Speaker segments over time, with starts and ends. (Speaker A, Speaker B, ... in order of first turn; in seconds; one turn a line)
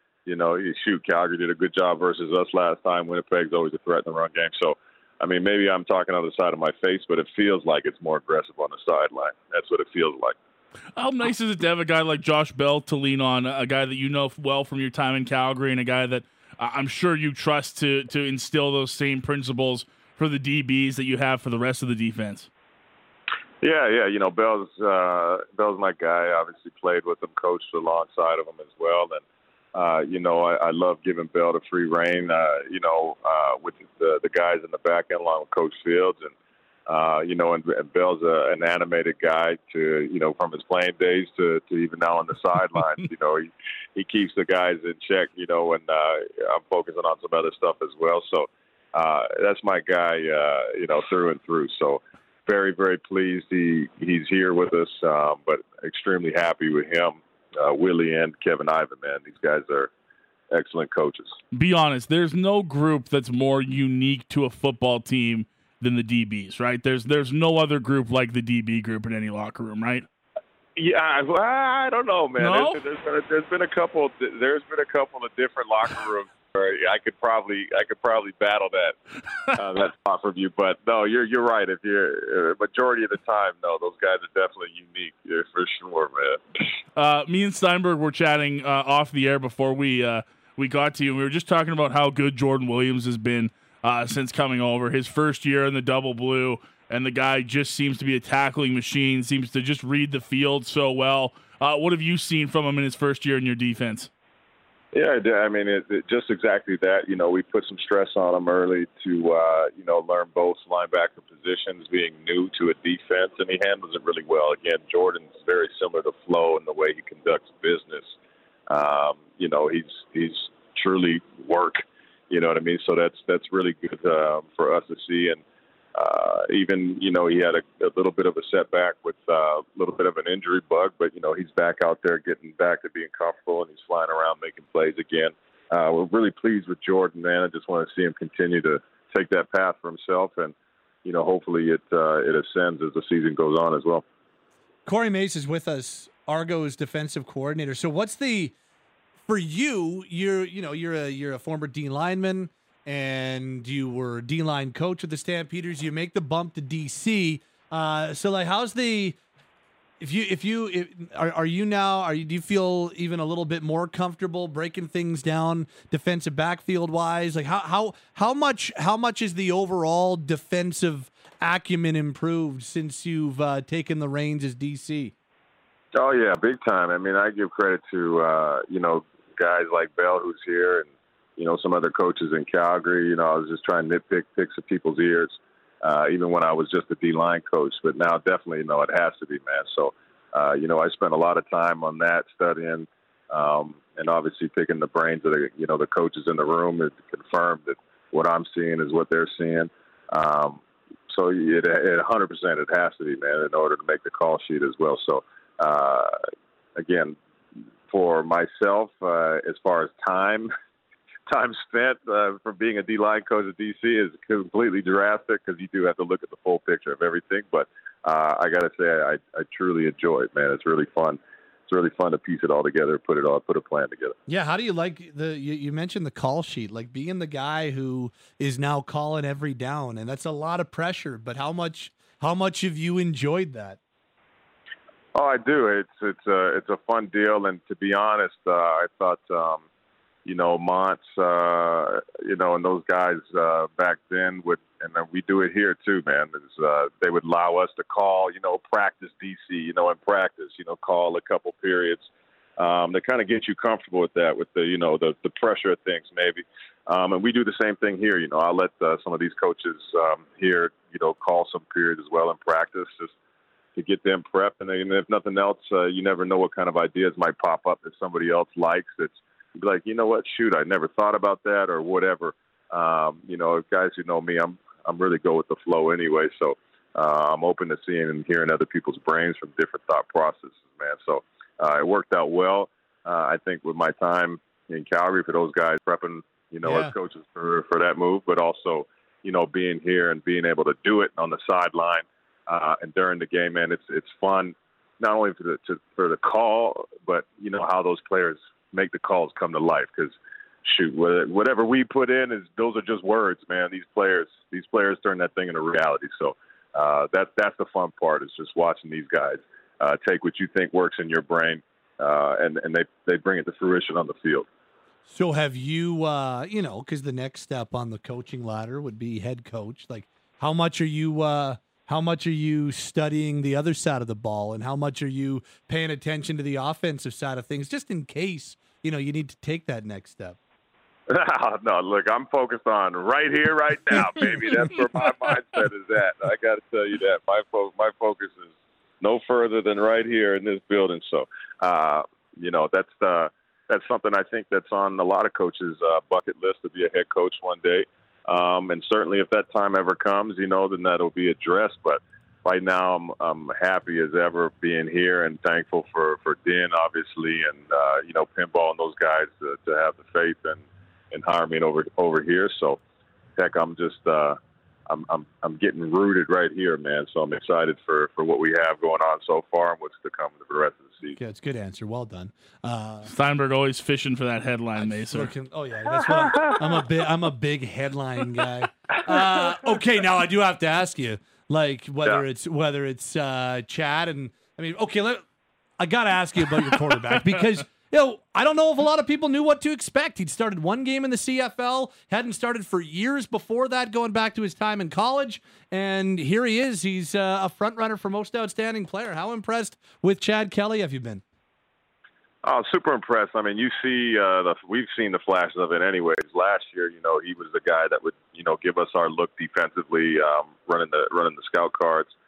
Speaker A: 0.3-10.4
Speaker B: 11.0-22.5
Speaker A: 23.6-29.2
Speaker A: 29.7-36.3
Speaker A: 36.9-59.9
Speaker A: 60.5-61.4
Speaker B: 61.5-70.1
Speaker A: 70.8-79.0
Speaker B: 72.4-72.8
Speaker A: 79.5-86.4
Speaker B: 87.0-104.1
Speaker A: 104.9-118.1
Speaker A: 118.7-125.4
Speaker A: 126.0-144.0
Speaker C: 144.9-148.5
Speaker C: 149.2-159.2
Speaker C: 160.0-175.1
Speaker A: 175.9-206.2
Speaker A: 206.8-207.2
Speaker A: 207.9-210.5
Speaker A: 211.3-224.2
Speaker C: 224.3-233.8
Speaker A: 235.1-239.6
Speaker A: 240.2-252.1
Speaker A: 252.6-263.1
Speaker A: 263.8-314.5
Speaker C: 286.6-286.9
Speaker C: 315.1-330.4
Speaker A: 331.1-362.8
Speaker A: 363.4-371.2
Speaker C: 371.2-373.1
Speaker B: 373.1-375.3
Speaker C: 374.8-385.2
Speaker C: 385.8-401.2
Speaker A: 402.4-412.1